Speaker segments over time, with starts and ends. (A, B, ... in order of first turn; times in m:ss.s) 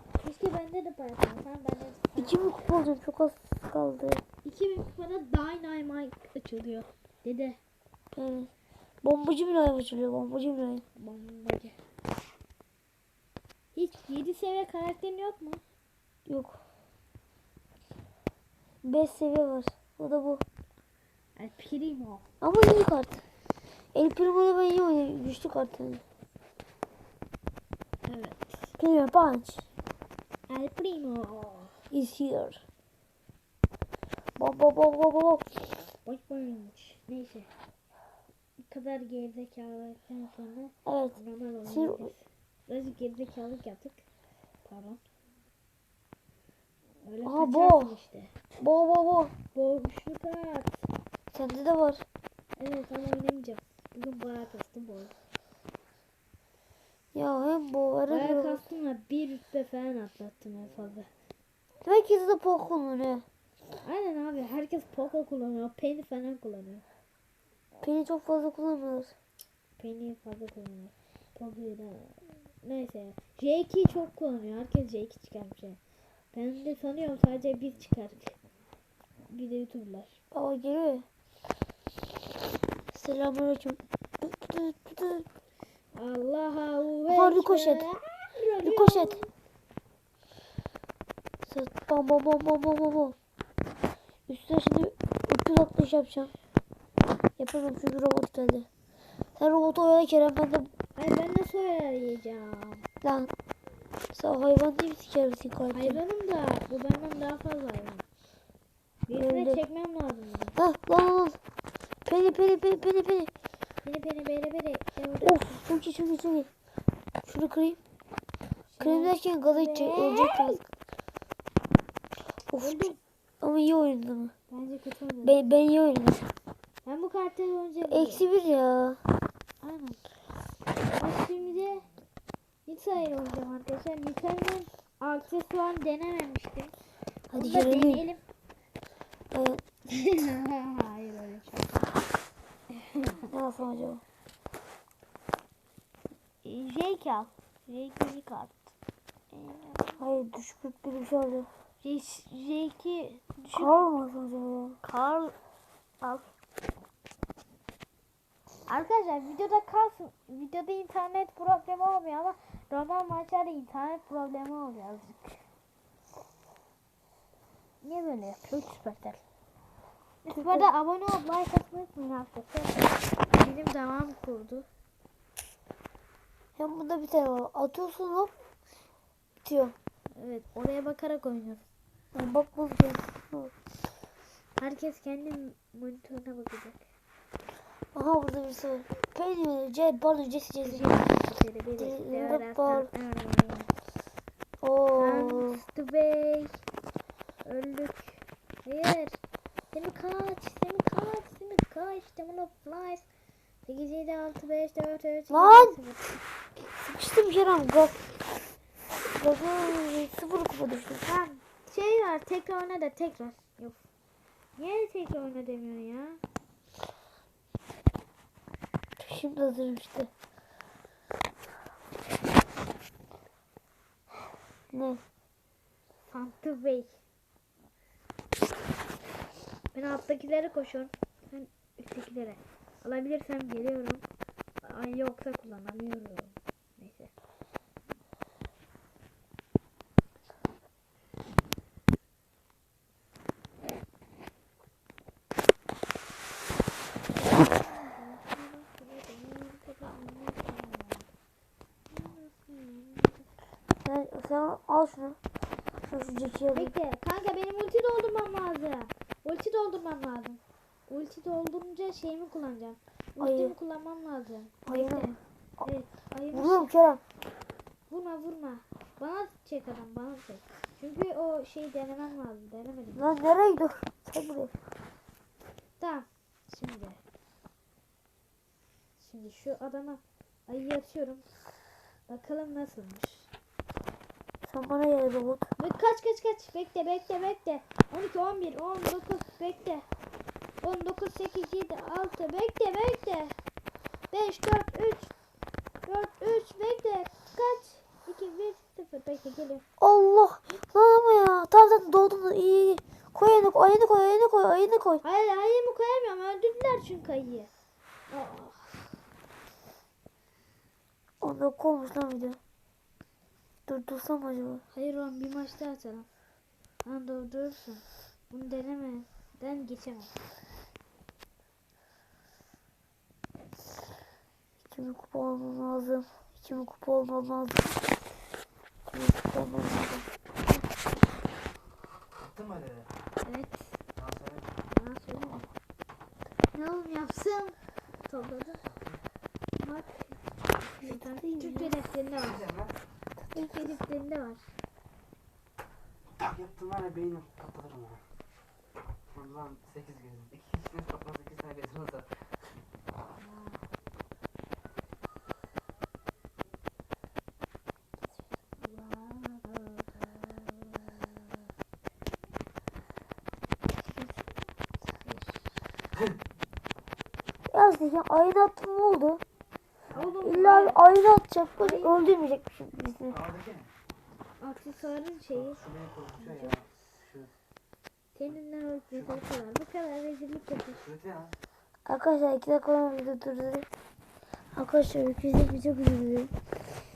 0:00.1-0:02.5 A
0:02.2-0:04.2 B
0:04.4-0:07.6 A
0:08.1-0:08.5 B
0:09.0-0:10.8 B
0:11.0-0:11.8 A
0:13.8-0:15.6 A
0:16.2-0:16.6 B
0:18.8-0:20.4 B
0:21.4-0:22.2 A
0:22.4-0:23.2 B
0:23.9-0:26.0 B
0:28.0-0:28.7 A
0:28.8-0:29.7 B
0:30.5-0:31.7 A
0:31.9-0:32.6 B
0:34.4-0:35.5 B
0:36.0-0:37.5 A
0:38.6-0:44.0 A
0:40.9-0:42.1 B
0:44.6-0:45.0 A
0:47.0-0:48.3 A
0:47.2-0:47.9 B
0:48.6-0:49.3 B
0:49.5-0:50.9 A
0:51.3-0:52.0 B
0:52.6-0:55.1 A
0:57.1-0:58.6 B
0:58.1-1:01.1 A
1:01.8-1:03.2 B
1:03.7-1:06.8 A
1:07.8-1:09.1 B
1:09.8-1:15.8 A
1:16.3-1:18.4 A
1:19.3-1:20.2 A
1:20.3-1:21.1 B
1:22.9-1:25.2 B
1:25.9-1:29.3 A
1:27.1-1:27.9 B
1:28.6-1:29.2 B
1:31.5-1:33.2 B
1:34.3-1:36.3 B
1:37.4-1:38.7 B
1:39.4-1:40.7 B
1:41.0-1:42.8 A
1:43.0-1:43.3 B
1:44.1-1:46.0 B
1:45.7-1:48.0 A
1:49.1-1:50.6 A
1:49.1-1:49.6 B
1:50.6-1:51.4 B
1:52.0-1:53.3 B
1:53.8-1:55.6 A
1:55.2-1:56.5 B
1:57.2-1:57.8 B
1:58.7-2:00.6 A
1:58.8-2:00.6 B
2:02.5-2:04.3 B
2:02.6-2:03.0 A
2:04.5-2:05.4 A
2:05.2-2:06.2 B
2:06.8-2:08.3 A
2:07.9-2:09.0 B
2:09.6-2:10.0 A
2:10.9-2:11.9 A
2:12.7-2:16.8 A
2:17.3-2:18.0 B
2:17.3-2:18.2 A
2:19.3-2:19.6 B
2:19.9-2:21.9 A
2:22.8-2:23.2 A
2:23.2-2:24.0 B
2:26.4-2:28.6 A
2:29.3-2:30.1 A
2:30.0-2:31.5 B
2:31.8-2:33.9 A
2:33.5-2:34.8 B
2:34.8-2:35.4 A
2:36.0-2:36.3 A
2:38.7-2:45.4 A
2:47.8-2:49.2 A
2:50.2-2:54.7 A
2:50.3-2:50.7 B
2:56.6-2:58.3 B
2:59.4-2:59.8 B
3:00.1-3:01.7 A
3:02.1-3:03.5 B
3:04.6-3:06.8 A
3:07.9-3:11.1 B
3:10.6-3:13.7 A
3:11.8-3:12.9 B
3:14.6-3:15.6 B
3:15.0-3:16.6 A
3:17.4-3:19.2 A
3:19.7-3:23.1 A
3:23.7-3:26.2 A
3:25.3-3:25.8 B
3:26.7-3:28.1 B
3:29.0-3:31.0 B
3:31.0-3:33.8 A
3:34.6-3:36.2 A
3:39.0-3:40.1 B
3:44.7-3:45.0 B
3:46.1-3:47.0 A
3:49.7-3:54.0 A
3:54.6-3:57.1 A
4:07.2-4:11.1 A
4:11.9-4:13.3 A
4:13.8-4:15.2 B
4:15.9-4:16.7 B
4:16.5-4:26.7 A
4:23.2-4:23.5 B
4:24.7-4:25.2 B
4:26.3-4:27.0 B
4:27.9-4:33.1 A
4:32.9-4:34.5 B
4:35.8-4:37.0 A
4:39.0-4:41.3 A
4:42.1-4:43.3 A
4:44.4-4:45.5 B
4:45.6-4:49.8 A
4:50.6-4:53.4 A
4:54.1-4:55.1 A
4:55.8-4:59.6 A
4:59.8-5:05.0 B
5:05.0-5:07.5 A
5:08.1-5:08.9 A
5:11.2-5:12.4 B
5:13.7-5:14.6 B
5:14.7-5:16.1 A
5:16.8-5:20.1 A
5:24.7-5:27.8 B
5:28.9-5:30.1 B
5:32.2-5:32.9 C
5:33.2-5:33.8 A
5:34.0-5:34.4 C
5:34.7-5:35.5 A
5:36.5-5:38.6 A
5:39.6-5:42.5 A
5:40.8-5:41.7 B
5:43.3-5:43.7 B
5:43.3-5:44.5 A
5:46.2-5:48.0 C
5:49.1-5:52.2 C
5:53.2-5:53.6 A
5:58.6-6:01.4 A
6:03.8-6:04.2 A
6:05.0-6:05.4 A
6:07.5-6:09.2 B
6:09.9-6:10.8 A
6:10.2-6:13.2 B
6:11.6-6:11.9 A
6:13.2-6:13.7 C
6:14.4-6:15.6 A
6:15.6-6:16.4 C
6:16.2-6:16.7 A
6:18.2-6:20.9 A
6:20.9-6:21.3 C
6:21.8-6:23.7 B
6:24.5-6:26.3 B